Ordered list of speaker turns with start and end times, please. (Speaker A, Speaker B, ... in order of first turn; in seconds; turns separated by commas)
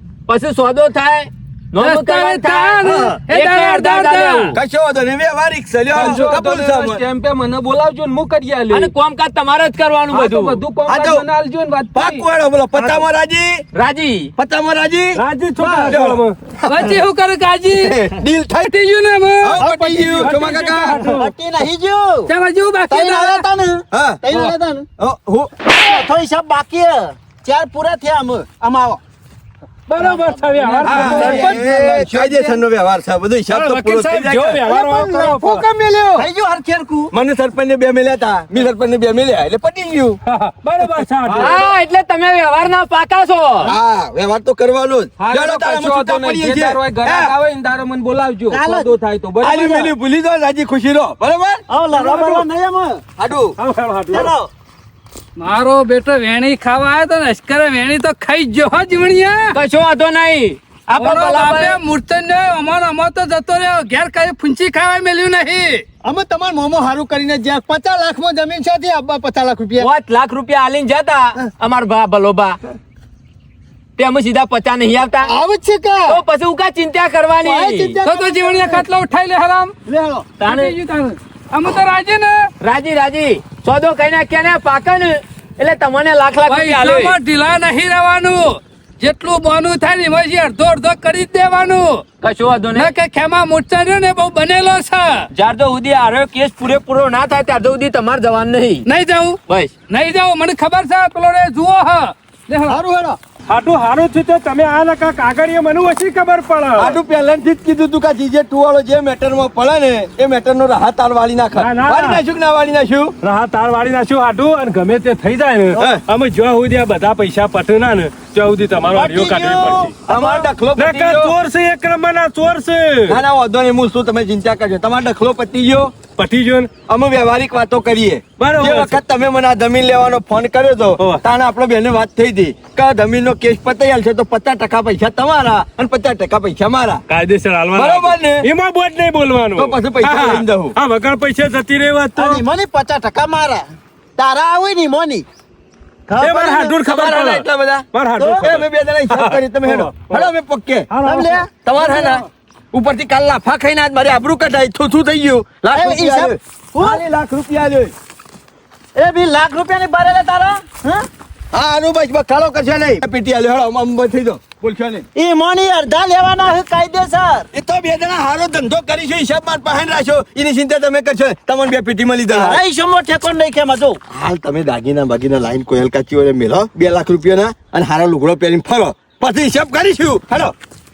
Speaker A: 0.3-4.6, Speaker B: 1.8-4.5, Speaker C: 4.5-7.0, Speaker D: 5.9-8.9, Speaker A: 8.7-10.6, Speaker D: 10.1-12.2, Speaker C: 10.9-11.3, Speaker C: 11.9-13.6, Speaker E: 12.8-13.1, Speaker A: 13.8-14.3, Speaker C: 14.4-15.2, Speaker F: 15.2-16.4, Speaker E: 15.6-16.0, Speaker C: 15.9-17.0, Speaker B: 16.7-17.9, Speaker C: 17.7-18.7, Speaker B: 18.6-19.6, Speaker C: 19.4-21.1, Speaker E: 19.6-20.4, Speaker F: 20.0-21.3, Speaker E: 21.0-22.3, Speaker B: 22.3-23.5, Speaker E: 22.9-24.9, Speaker C: 23.9-25.5, Speaker E: 25.6-29.0, Speaker F: 29.9-31.6, Speaker E: 30.0-32.5, Speaker C: 30.8-34.7, Speaker F: 33.5-35.7, Speaker G: 34.7-36.2, Speaker E: 36.2-37.1, Speaker C: 37.1-40.2, Speaker F: 40.3-41.6, Speaker D: 41.3-41.8, Speaker A: 41.4-43.7, Speaker C: 43.6-47.3, Speaker D: 45.2-49.9, Speaker E: 48.5-48.9, Speaker C: 49.4-52.4, Speaker E: 49.5-49.9, Speaker E: 51.7-53.0, Speaker C: 53.2-53.6, Speaker F: 53.6-54.4, Speaker E: 54.1-54.5, Speaker B: 55.4-59.6, Speaker A: 59.5-61.8, Speaker B: 61.0-65.8, Speaker G: 66.0-69.9, Speaker A: 69.8-72.6, Speaker A: 74.0-75.3, Speaker G: 75.3-76.2, Speaker A: 76.1-78.0, Speaker G: 77.4-78.8, Speaker B: 78.0-79.8, Speaker G: 79.9-80.4, Speaker B: 80.4-82.5, Speaker A: 80.4-80.7, Speaker A: 82.6-87.2, Speaker B: 86.5-92.0, Speaker A: 92.2-92.9, Speaker B: 92.8-95.3, Speaker A: 95.3-98.8, Speaker B: 98.9-99.4, Speaker A: 99.5-99.7, Speaker B: 99.9-102.8, Speaker G: 102.7-103.2, Speaker F: 103.5-107.0, Speaker C: 106.8-113.2, Speaker F: 111.6-112.2, Speaker F: 113.2-120.0, Speaker C: 115.8-116.0, Speaker E: 118.9-120.5, Speaker C: 120.1-121.4, Speaker F: 120.8-123.2, Speaker C: 123.1-126.0, Speaker F: 126.2-126.7, Speaker C: 126.9-137.0, Speaker F: 128.4-129.0, Speaker F: 137.1-142.4, Speaker C: 137.7-138.4, Speaker C: 139.6-140.8, Speaker E: 142.2-143.7, Speaker E: 144.2-145.3, Speaker E: 146.1-146.8, Speaker F: 146.2-150.3, Speaker C: 146.8-147.9, Speaker E: 148.2-148.4, Speaker C: 148.4-150.9, Speaker F: 150.9-151.4, Speaker E: 151.0-152.2, Speaker C: 151.6-157.9, Speaker E: 155.7-157.0, Speaker E: 159.0-161.1, Speaker C: 161.5-165.1, Speaker E: 165.2-167.5, Speaker C: 167.5-172.6, Speaker E: 172.3-174.0, Speaker C: 174.1-180.5